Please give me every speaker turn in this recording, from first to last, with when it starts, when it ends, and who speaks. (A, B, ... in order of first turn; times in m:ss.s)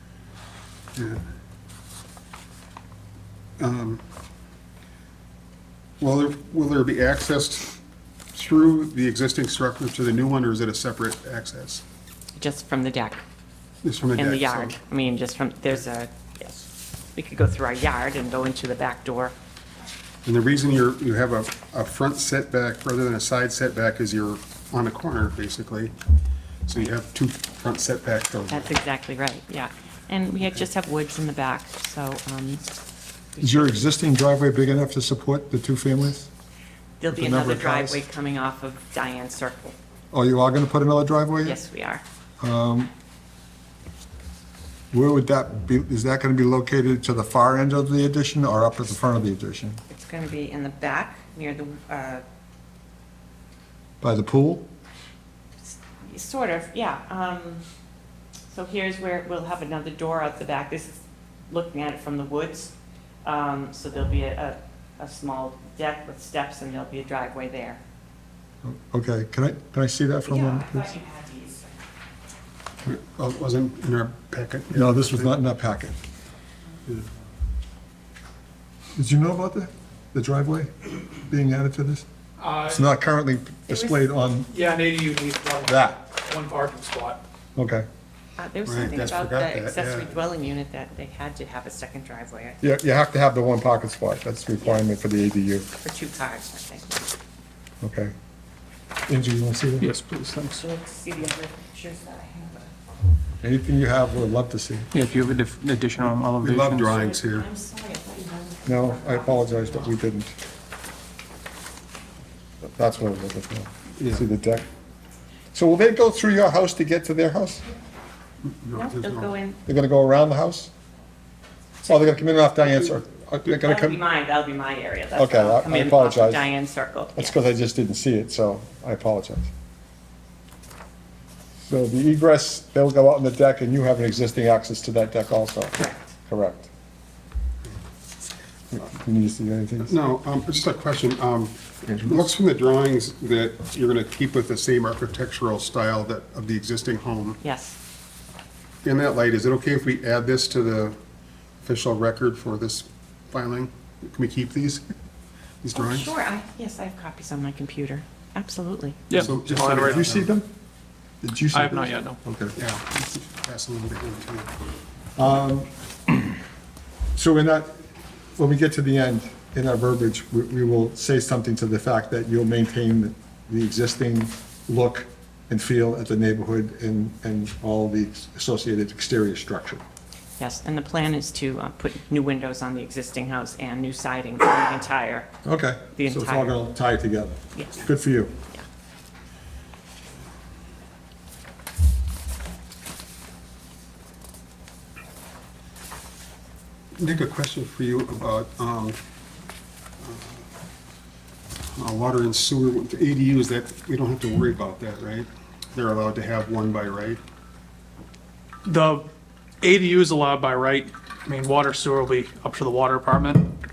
0:01.0-0:01.2 A
0:03.6-0:04.0 A
0:06.0-0:07.8 A
0:08.3-0:11.8 A
0:12.4-0:13.2 B
0:13.8-0:14.8 A
0:14.2-0:19.4 B
0:20.2-0:25.9 A
0:26.7-0:28.7 A
0:28.5-0:32.6 B
0:33.3-0:33.8 B
0:33.4-0:36.3 C
0:37.0-0:39.8 B
0:37.1-0:38.0 C
0:40.1-0:41.6 C
0:41.4-0:42.0 B
0:42.4-0:42.9 C
0:44.9-0:49.8 C
0:49.9-0:52.2 B
0:54.0-0:54.7 C
0:56.0-0:57.6 B
0:58.5-1:02.7 B
1:03.2-1:07.8 B
1:08.6-1:10.9 C
1:10.3-1:11.8 B
1:12.8-1:15.4 A
1:14.7-1:16.0 C
1:19.0-1:22.0 C
1:22.4-1:22.9 D
1:22.6-1:24.5 C
1:23.7-1:24.0 B
1:24.5-1:27.2 D
1:25.6-1:26.0 C
1:27.6-1:27.9 C
1:28.4-1:32.6 B
1:28.6-1:30.2 A
1:32.6-1:35.7 C
1:34.6-1:34.8 B
1:35.8-1:37.1 B
1:37.8-1:38.1 C
1:39.1-1:39.9 C
1:39.8-1:40.6 E
1:40.5-1:42.7 B
1:43.4-1:44.9 C
1:44.9-1:47.0 E
1:46.4-1:47.5 A
1:47.0-1:50.0 B
1:48.7-1:50.3 C
1:52.6-1:54.6 C
1:54.0-1:54.2 A
1:55.5-1:57.6 C
1:58.5-1:59.3 A
1:58.7-1:59.6 B
1:59.6-2:00.7 C
2:01.8-2:04.0 C
2:03.6-2:07.4 B
2:05.2-2:06.4 C
2:07.2-2:09.5 C
2:11.6-2:16.7 C
2:15.8-2:16.1 B
2:18.7-2:20.0 C
2:19.8-2:27.4 A
2:27.4-2:27.8 B
2:28.8-2:31.0 A
2:31.6-2:34.8 A
2:35.6-2:36.1 A
2:35.8-2:39.0 B
2:39.1-2:40.1 D
2:39.1-2:40.5 C
2:39.1-2:40.3 A
2:41.2-2:42.6 C
2:41.5-2:42.2 D
2:42.6-2:44.5 A
2:45.2-2:45.7 C
2:47.2-2:47.8 C
2:48.4-2:59.8 C
3:00.4-3:05.3 B
3:05.4-3:08.4 C
3:06.0-3:06.6 B
3:07.5-3:07.9 B
3:17.0-3:19.0 A
3:20.0-3:20.4 A
3:21.7-3:27.2 A
3:28.6-3:29.1 D
3:29.6-3:33.5 D